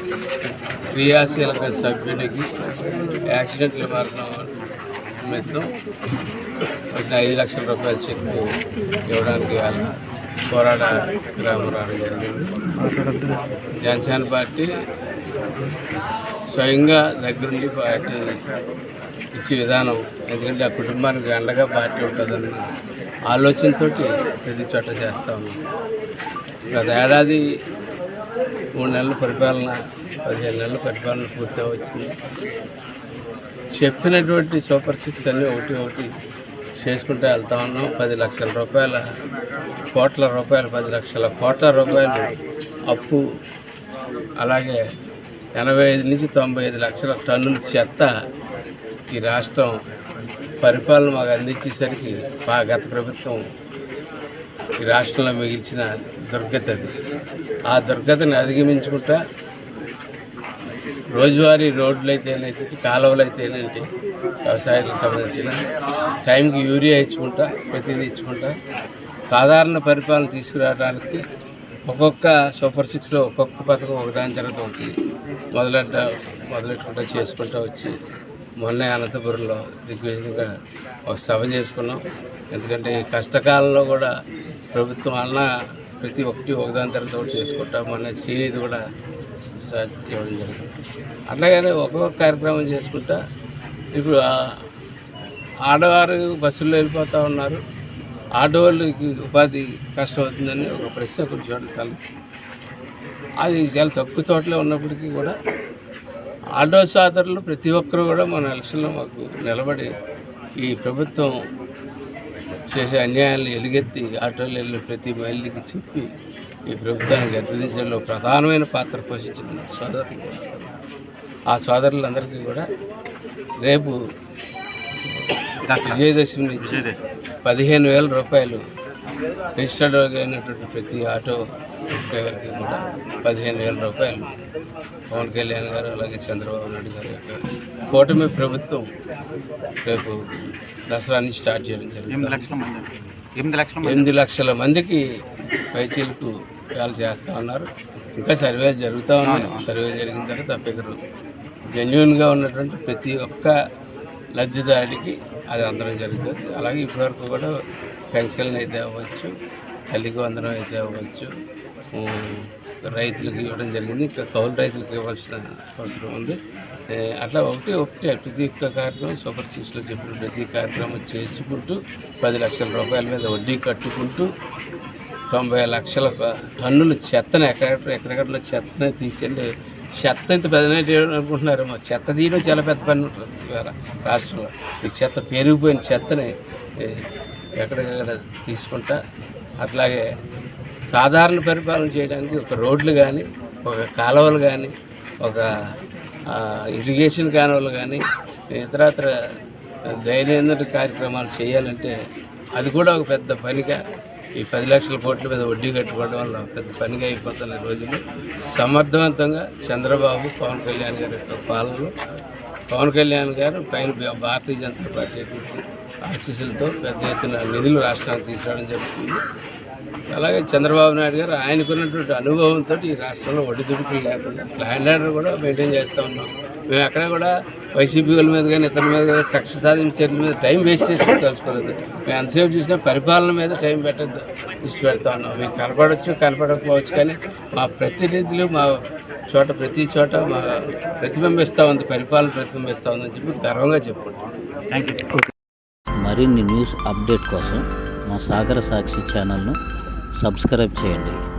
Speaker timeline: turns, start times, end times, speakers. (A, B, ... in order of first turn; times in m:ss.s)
0:00.9-0:02.5 A
0:03.3-0:04.5 A
0:05.2-0:05.7 A
0:06.9-0:08.5 A
0:09.1-0:09.9 A
0:10.5-0:12.5 A
0:13.8-0:14.7 A
0:16.5-0:18.2 A
0:19.4-0:22.6 A
0:23.3-0:25.6 A
0:26.7-0:27.4 A
0:28.8-0:32.1 A
0:33.7-0:36.1 A
0:36.8-0:39.0 A
0:39.9-0:42.4 A
0:42.9-0:43.2 A
0:44.4-0:44.8 A
0:45.6-0:48.1 A
0:49.1-0:49.8 A
0:50.6-0:53.4 A
0:54.8-0:57.0 A
0:57.7-0:59.2 A
1:01.1-1:03.8 A
1:04.5-1:05.6 A
1:06.3-1:08.5 A
1:09.3-1:11.2 A
1:11.9-1:14.9 A
1:15.6-1:18.0 A
1:18.6-1:20.5 A
1:21.1-1:22.0 A
1:22.5-1:24.1 A
1:24.7-1:25.5 A
1:26.0-1:28.8 A
1:29.6-1:30.7 A
1:31.3-1:33.2 A
1:33.9-1:34.5 A
1:35.7-1:37.6 A
1:38.4-1:42.0 A
1:43.4-1:45.4 A
1:46.6-1:49.9 A
1:50.6-1:51.3 A
1:52.7-1:56.1 A
1:56.7-2:00.7 A
2:01.5-2:02.7 A
2:03.6-2:04.0 A
2:05.7-2:06.0 B
2:05.8-2:06.8 A
2:06.6-2:07.0 B
2:07.4-2:08.6 A
2:09.6-2:14.3 A
2:15.1-2:18.9 A
2:19.8-2:20.2 A
2:20.9-2:22.5 A
2:22.1-2:24.1 B
2:23.8-2:25.0 A
2:25.7-2:31.0 A
2:29.2-2:29.6 B
2:31.7-2:33.5 A
2:34.4-2:37.5 A
2:38.1-2:39.3 A
2:39.9-2:41.3 A
2:41.9-2:46.4 A
2:46.9-2:54.3 A
2:55.3-3:07.0 A
3:07.6-3:09.0 A
3:09.6-3:10.0 A
3:10.9-3:15.5 A
3:16.3-3:19.1 A
3:19.9-3:22.0 A
3:22.6-3:23.8 A
3:24.4-3:31.9 A
3:32.7-3:39.2 A
3:40.1-3:58.7 A
3:59.3-4:04.2 A
4:04.7-4:05.2 B
4:06.0-4:09.6 C
4:10.2-4:11.2 C